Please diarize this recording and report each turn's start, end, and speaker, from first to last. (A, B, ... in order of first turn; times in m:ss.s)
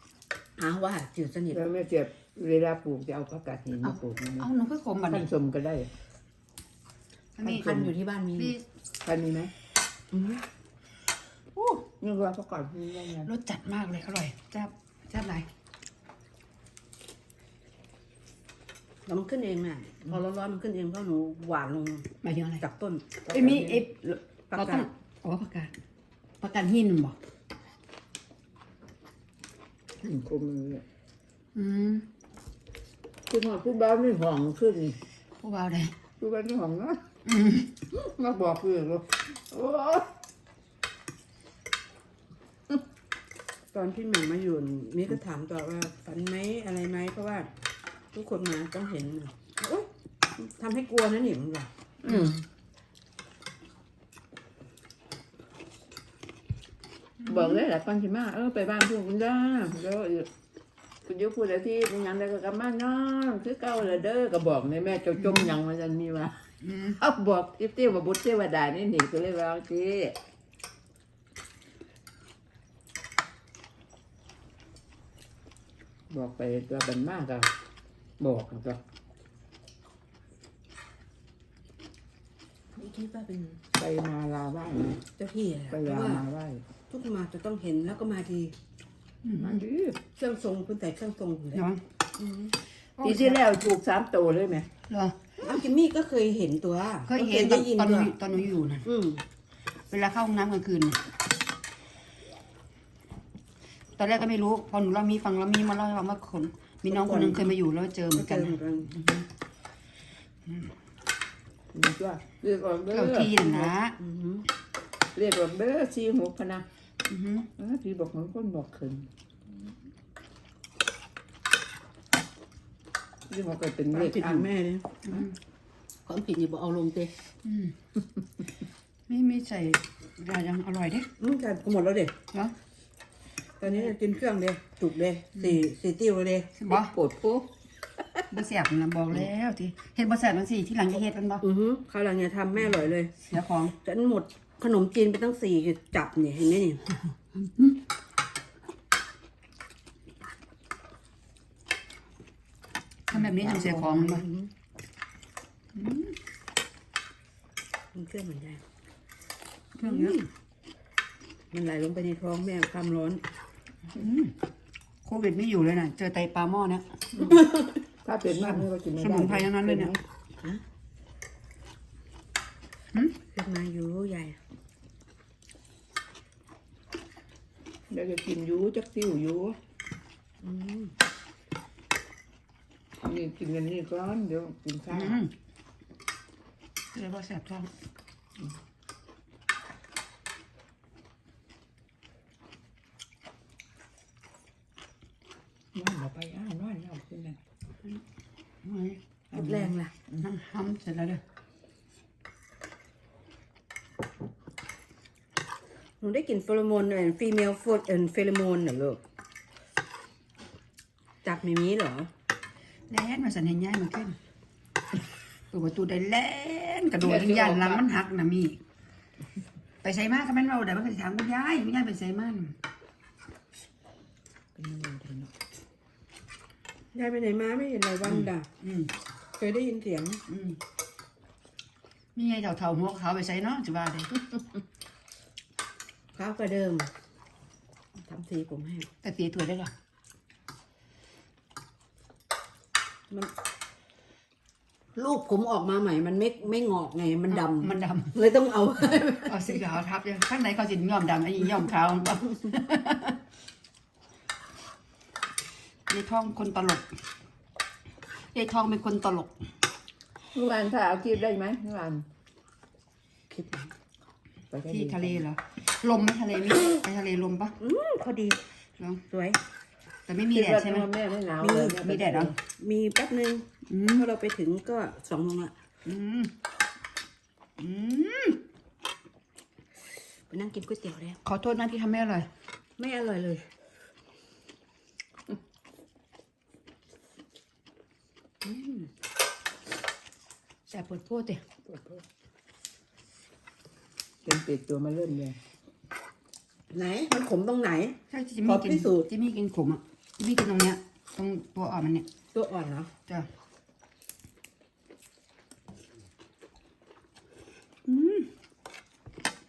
0:00.6-0:01.6 A
0:01.5-0:04.5 B
0:03.9-0:05.3 C
0:05.1-0:05.9 B
0:07.4-0:07.8 C
0:07.4-0:08.5 A
0:07.6-0:07.9 B
0:08.4-0:08.6 C
0:09.0-0:09.5 B
0:10.1-0:10.4 A
0:11.8-0:13.3 B
0:13.2-0:15.4 C
0:19.0-0:22.1 A
0:22.2-0:22.6 C
0:22.6-0:23.8 A
0:23.3-0:25.7 C
0:24.5-0:24.9 A
0:26.4-0:27.2 C
0:30.0-0:30.8 B
0:31.5-0:32.0 C
0:33.3-0:35.0 B
0:35.4-0:35.9 C
0:36.2-0:37.0 B
0:37.2-0:37.7 C
0:37.9-0:40.1 B
0:43.7-0:47.5 A
0:48.1-0:51.7 A
0:52.0-0:52.4 B
0:57.2-0:57.6 C
0:57.2-1:00.3 B
1:01.0-1:10.2 B
1:05.2-1:05.5 C
1:06.6-1:07.0 C
1:16.1-1:17.5 B
1:18.2-1:18.8 B
1:22.8-1:23.6 A
1:23.7-1:25.0 B
1:25.2-1:26.2 A
1:25.7-1:26.6 B
1:26.9-1:28.5 A
1:29.2-1:29.6 C
1:29.4-1:30.0 B
1:30.1-1:31.6 A
1:31.5-1:31.8 C
1:32.2-1:32.5 A
1:33.0-1:33.4 C
1:33.0-1:34.7 B
1:34.9-1:35.2 C
1:35.4-1:38.1 A
1:37.1-1:38.8 C
1:38.8-1:39.2 A
1:39.9-1:41.0 C
1:44.0-1:49.2 C
1:46.9-1:47.5 A
1:48.1-1:48.9 A
1:51.7-1:53.7 B
1:52.9-1:54.0 C
1:54.0-1:54.4 A
1:55.1-1:56.6 B
1:57.0-1:57.5 C
1:57.6-1:59.1 B
2:03.3-2:04.5 B
2:03.9-2:04.9 A
2:05.0-2:05.3 C
2:06.0-2:07.1 A
2:07.4-2:07.7 C
2:09.1-2:11.1 C
2:11.2-2:12.1 A
2:13.6-2:16.5 A
2:16.5-2:16.9 C
2:16.7-2:17.5 B
2:18.3-2:21.4 C
2:21.4-2:23.1 A
2:23.2-2:23.7 C
2:23.7-2:26.8 A
2:33.1-2:34.2 C
2:33.2-2:34.5 A
2:35.7-2:36.1 C
2:37.9-2:38.6 A
2:39.8-2:40.2 C
2:39.8-2:40.3 A
2:41.5-2:43.2 A
2:43.9-2:44.3 C
2:45.0-2:47.4 C
2:48.0-2:50.0 B
2:48.6-2:49.9 C
2:53.3-2:54.4 A
2:57.9-2:59.6 B
3:00.4-3:00.9 A
3:03.0-3:05.2 B
3:04.9-3:05.3 C
3:06.9-3:07.7 C
3:15.7-3:17.4 B
3:18.6-3:19.0 C
3:19.3-3:19.9 A
3:19.3-3:20.2 B
3:20.2-3:21.2 C
3:26.0-3:29.0 A
3:31.2-3:32.1 A
3:32.9-3:34.2 C
3:35.5-3:38.6 C
3:37.0-3:37.8 B
3:39.8-3:42.6 C
3:44.5-3:45.3 B
3:46.9-3:48.4 A
3:48.1-3:48.9 C
3:49.4-3:50.2 A
3:50.3-3:50.6 C
3:52.1-3:54.2 C
3:56.1-3:56.9 A
3:58.0-3:58.9 A
3:59.0-3:59.7 C
4:05.0-4:09.6 A
4:07.3-4:08.1 C
4:09.2-4:13.1 C
4:15.9-4:16.8 C
4:18.3-4:19.3 C
4:20.3-4:22.0 B
4:23.3-4:23.7 A
4:24.5-4:25.2 B
4:24.7-4:27.6 C
4:27.6-4:28.4 A
4:29.1-4:29.4 A
4:30.1-4:30.9 C
4:30.3-4:32.4 B
4:31.4-4:31.8 A
4:31.7-4:32.3 C
4:32.5-4:35.5 A
4:33.7-4:34.1 C
4:35.8-4:36.3 C
4:37.6-4:38.4 C
4:40.3-4:41.2 A
4:41.2-4:42.3 C
4:42.8-4:43.5 A
4:48.4-4:48.9 A
4:50.7-4:51.4 C
4:51.7-4:52.0 B
4:54.2-4:55.4 B
4:56.7-4:59.1 A
4:58.1-5:02.0 C
5:02.3-5:02.9 A
5:07.9-5:08.3 C